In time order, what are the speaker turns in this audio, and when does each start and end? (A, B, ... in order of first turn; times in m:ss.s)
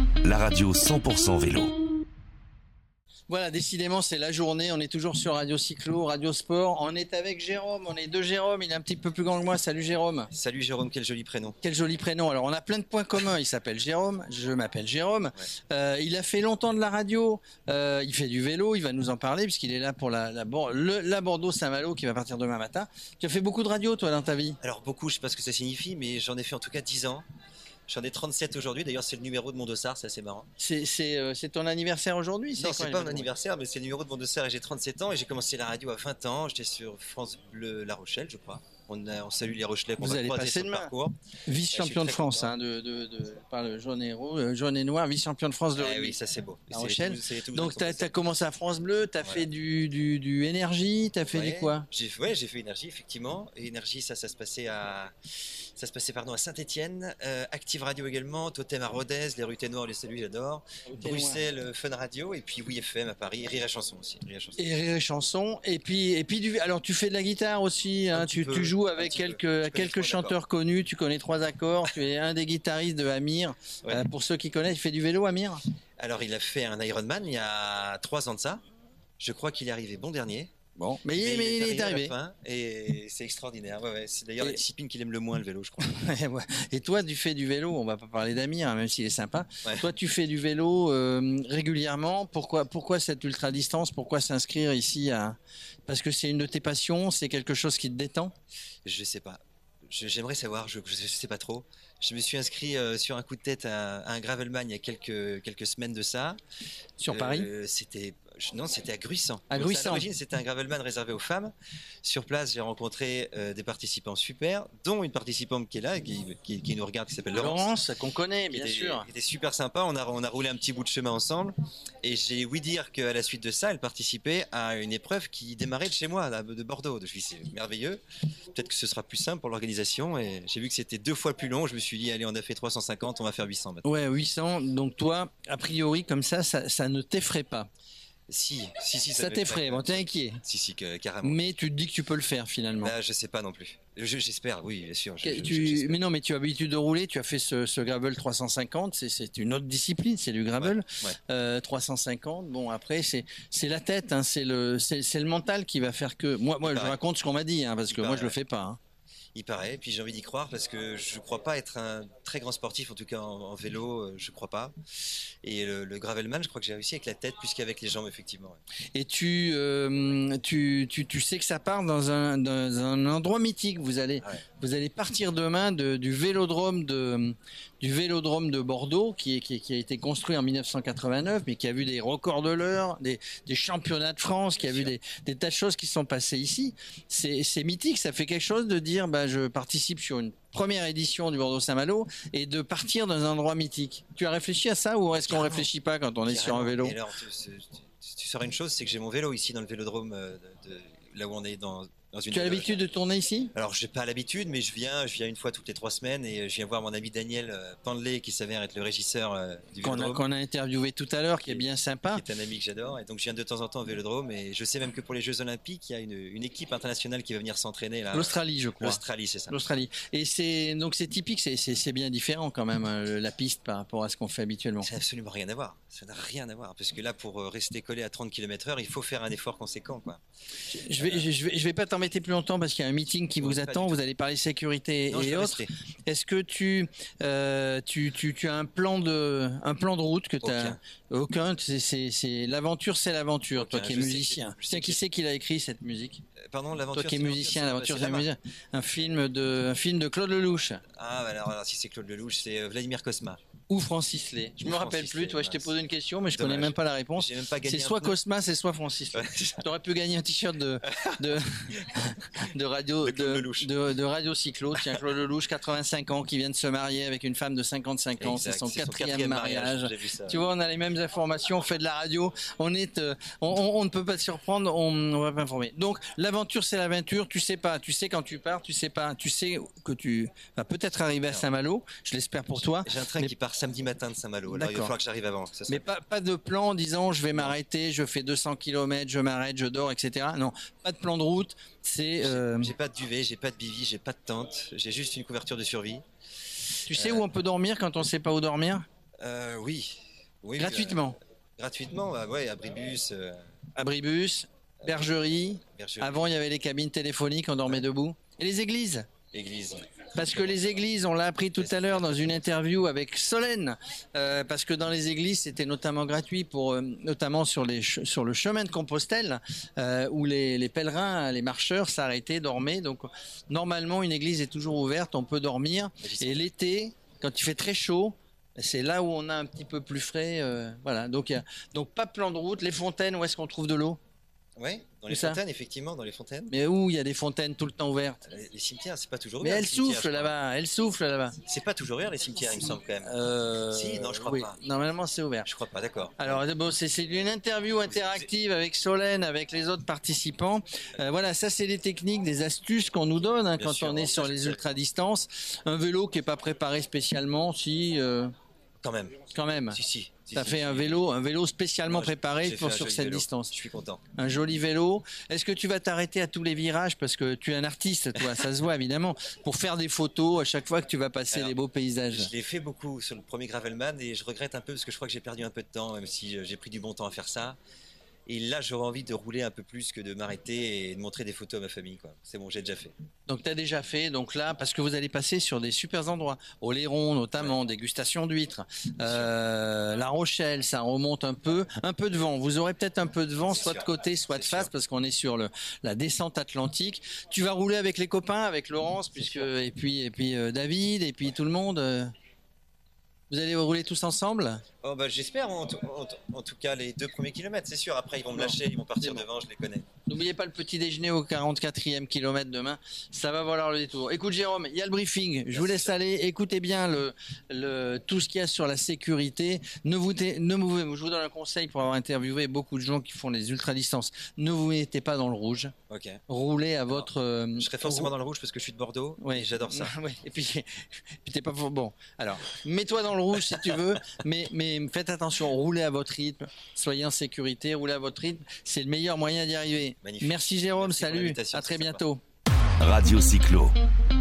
0:00.2-0:01.8 A
0:03.3-0:10.3 B
0:10.3-0:11.6 C
0:11.6-0:24.6 B
0:24.6-0:27.2 C
0:27.9-0:30.5 C
0:30.6-0:33.3 B
0:32.6-0:41.2 C
0:40.0-0:40.9 B
0:41.5-0:46.2 B
0:41.7-0:42.5 C
0:45.8-0:48.3 C
0:46.7-0:51.9 B
0:49.2-0:49.5 C
0:51.2-0:55.1 C
0:55.8-1:04.6 C
1:00.8-1:01.4 B
1:04.6-1:15.6 B
1:08.1-1:10.4 C
1:16.0-1:18.6 C
1:19.2-1:20.5 C
1:20.8-1:22.2 B
1:21.1-1:26.0 C
1:25.8-1:38.3 B
1:38.8-1:46.4 C
1:47.0-1:47.5 B
1:47.1-1:57.7 C
1:49.5-1:50.1 B
1:57.3-1:59.1 B
1:58.5-2:08.0 C
2:08.5-2:13.8 C
2:13.8-2:17.7 B
2:18.3-2:21.5 C
2:19.2-2:20.4 B
2:21.2-2:22.9 B
2:22.8-2:26.0 C
2:25.2-2:38.8 B
2:30.6-2:31.2 C
2:36.7-2:37.0 C
2:37.9-2:38.4 C
2:39.4-2:48.6 C
2:48.9-3:17.0 B
3:04.6-3:05.0 C
3:15.2-3:15.7 C
3:16.3-3:22.8 C
3:22.3-3:23.5 B
3:23.6-3:30.2 C
3:29.8-3:32.2 B
3:31.4-3:39.6 C
3:38.1-3:44.9 B
3:44.8-3:50.2 C
3:50.7-4:06.2 B
3:50.9-3:51.3 C
3:53.4-3:54.0 C
3:55.1-3:55.7 C
4:00.4-4:00.8 C
4:03.6-4:05.0 C
4:06.5-4:08.3 C
4:06.9-4:10.8 B
4:11.0-4:13.4 C
4:13.7-4:43.3 B
4:14.6-4:15.7 C
4:16.3-4:18.2 C
4:19.1-4:19.6 C
4:20.9-4:21.4 C
4:23.0-4:23.7 C
4:28.2-4:30.5 C
4:42.6-4:45.9 C
4:44.5-4:45.0 B
4:45.7-4:52.7 B
4:52.2-4:56.0 C
4:56.9-4:57.3 C
4:56.9-4:58.8 B
4:59.2-5:01.0 C
5:00.6-5:01.2 B
5:01.6-5:03.4 C
5:03.8-5:09.1 B
5:05.7-5:06.3 C
5:09.3-5:10.6 C
5:10.1-5:34.0 B
5:11.6-5:12.5 C
5:26.0-5:26.5 C
5:34.6-5:36.5 C
5:35.1-5:35.4 B
5:36.5-5:38.2 B
5:38.2-5:40.4 C
5:39.4-5:41.4 B
5:41.4-5:43.2 C
5:43.0-5:45.5 B
5:43.7-5:44.6 C
5:45.4-5:46.4 C
5:46.2-5:58.3 B
5:47.9-5:48.3 C
5:53.6-5:54.7 C
5:58.8-6:01.0 C
5:59.3-5:59.8 B
6:00.3-6:03.5 B
6:01.8-6:04.0 C
6:04.2-6:12.3 B
6:11.3-6:11.6 C
6:12.1-6:17.6 C
6:18.3-6:22.9 C
6:23.3-6:42.1 B
6:29.0-6:29.3 C
6:33.5-6:34.7 C
6:39.2-6:39.5 C
6:43.3-6:44.6 B
6:44.8-6:49.9 C
6:48.4-6:49.2 B
6:50.1-7:05.7 B
6:55.5-6:56.0 C
7:05.9-7:06.2 C
7:06.3-7:08.1 B
7:06.9-7:09.9 C
7:09.2-7:22.2 B
7:20.0-7:22.0 C
7:22.8-7:23.8 A